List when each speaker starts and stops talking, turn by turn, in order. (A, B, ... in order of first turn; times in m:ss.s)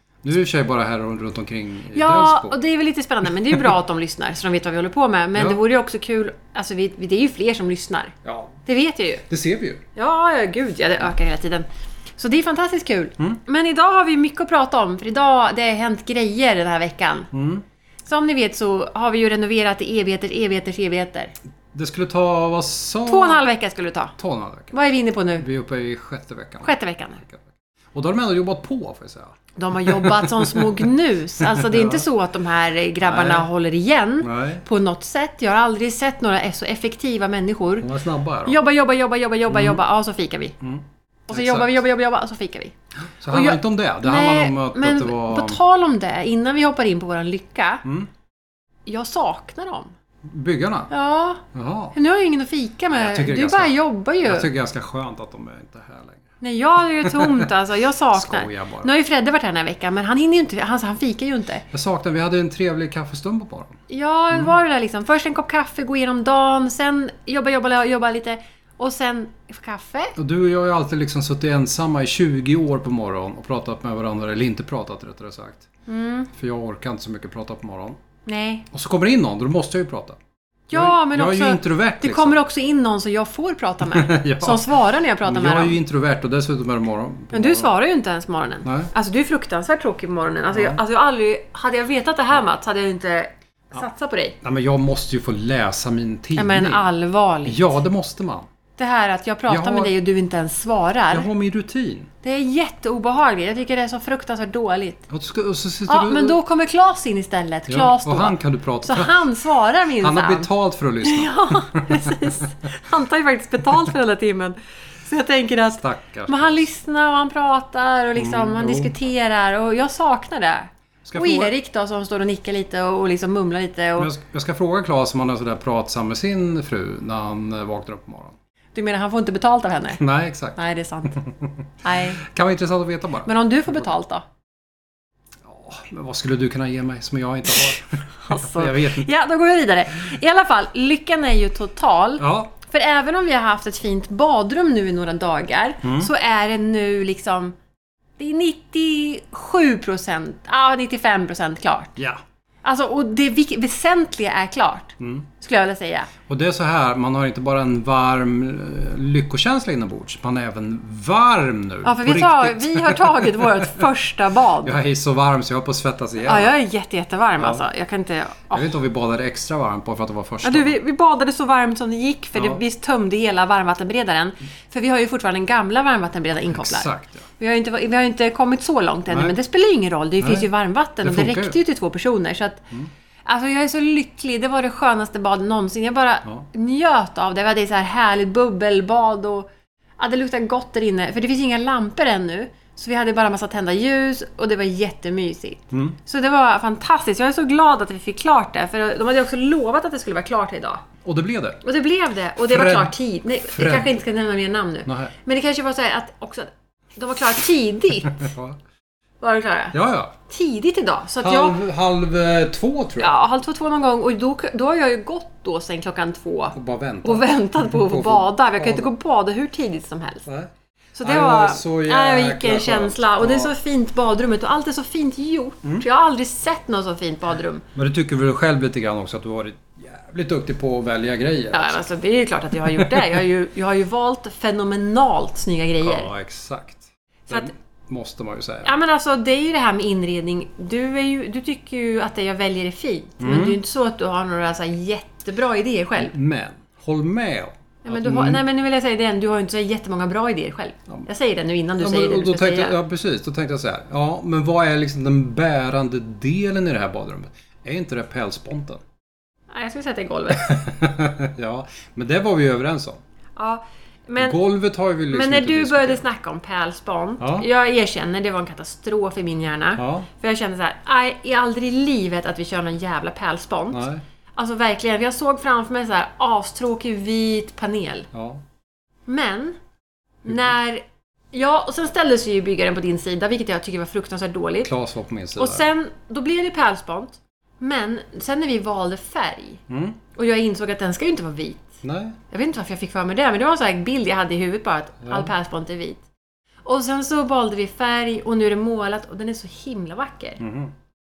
0:00.2-0:02.6 A
0:01.9-0:08.1 B
0:05.3-0:05.6 A
0:08.2-0:08.6 A
0:08.6-0:09.2 B
0:09.3-0:09.8 A
0:10.0-0:11.6 B
0:12.2-0:17.3 B
0:17.3-0:17.6 A
0:18.0-0:21.3 B
0:21.7-0:23.5 A
0:23.0-0:24.1 B
0:24.2-0:24.7 A
0:24.7-0:25.4 B
0:25.4-0:26.7 A
0:26.6-0:27.2 B
0:27.2-0:32.0 A
0:29.6-0:37.9 B
0:33.0-0:33.5 A
0:34.2-0:34.6 A
0:37.8-0:38.6 A
0:38.4-0:40.5 B
0:39.5-0:39.8 A
0:40.6-0:41.8 A
0:41.3-0:42.7 B
0:43.1-0:45.6 A
0:43.3-0:47.8 B
0:47.8-0:48.1 A
0:48.9-0:49.9 B
0:50.2-0:50.9 A
0:50.9-0:51.4 B
0:51.5-0:52.0 A
0:51.9-0:54.5 B
0:52.9-0:53.7 A
0:54.2-0:56.3 A
0:56.4-1:01.6 B
0:57.0-0:57.5 A
0:58.1-0:58.9 A
1:01.7-1:03.8 A
1:03.9-1:10.1 B
1:10.2-1:15.6 A
1:15.9-1:16.3 B
1:16.3-1:18.0 A
1:18.2-1:18.6 B
1:18.7-1:20.2 A
1:20.7-1:25.8 B
1:20.7-1:22.4 A
1:23.8-1:27.7 A
1:27.3-1:34.4 B
1:28.6-1:28.9 A
1:30.5-1:30.8 A
1:34.4-1:36.9 A
1:36.4-1:37.6 B
1:37.4-1:38.5 A
1:38.8-1:41.3 B
1:39.5-1:39.9 A
1:41.1-1:42.1 A
1:42.2-1:45.1 B
1:45.1-1:46.4 A
1:45.9-1:50.5 B
1:47.7-1:49.2 A
1:50.0-1:52.4 A
1:51.0-2:04.1 B
1:55.8-1:56.7 A
1:58.2-1:58.9 A
2:01.0-2:01.5 A
2:04.0-2:08.4 A
2:08.7-2:10.0 B
2:10.0-2:10.6 A
2:10.6-2:11.2 B
2:11.1-2:11.6 A
2:11.8-2:12.2 B
2:12.2-2:13.8 A
2:13.2-2:14.2 B
2:15.4-2:19.1 A
2:17.6-2:27.5 B
2:22.2-2:22.5 A
2:25.8-2:26.1 A
2:28.2-2:32.0 B
2:32.6-2:36.1 B
2:35.0-2:35.3 A
2:36.2-2:43.8 A
2:41.8-2:44.7 B
2:44.6-2:46.5 A
2:46.2-2:48.7 B
2:47.4-2:47.6 A
2:48.5-2:50.8 A
2:50.4-3:02.7 B
2:52.3-2:52.6 A
2:56.5-2:57.2 A
2:59.1-2:59.3 A
3:00.2-3:00.5 A
3:01.0-3:01.6 A
3:03.2-3:20.8 B
3:15.7-3:16.0 A
3:21.0-3:21.6 A
3:21.6-3:28.3 B
3:22.4-3:24.0 A
3:24.8-3:25.1 A
3:28.0-3:28.6 A
3:29.2-3:29.8 B
3:29.7-3:30.1 A
3:30.3-3:31.6 B
3:31.2-3:33.2 A
3:33.0-3:40.3 B
3:36.5-3:38.9 A
3:40.2-3:40.5 A
3:41.0-3:47.6 B
3:41.0-3:43.5 A
3:47.7-3:51.8 A
3:51.5-3:56.1 B
3:52.6-3:53.2 A
3:55.8-3:58.8 A
3:58.6-4:06.1 B
4:03.2-4:03.6 A
4:06.0-4:08.4 A
4:07.8-4:12.8 B
4:11.8-4:18.8 A
4:19.5-4:20.5 B
4:20.3-4:23.0 A
4:23.4-4:24.4 B
4:24.2-4:26.0 A
4:25.1-4:38.1 B
4:27.2-4:27.5 A
4:29.8-4:30.1 A
4:33.7-4:34.0 A
4:38.1-4:38.4 A
4:39.1-4:39.6 B
4:40.2-4:44.7 B
4:44.6-4:45.7 A
4:45.4-4:49.6 B
4:49.7-4:50.0 A
4:50.1-4:51.7 B
4:51.8-4:52.2 A
4:52.3-4:56.0 B
4:55.0-4:55.3 A
4:56.6-5:00.4 B
5:00.4-5:00.7 A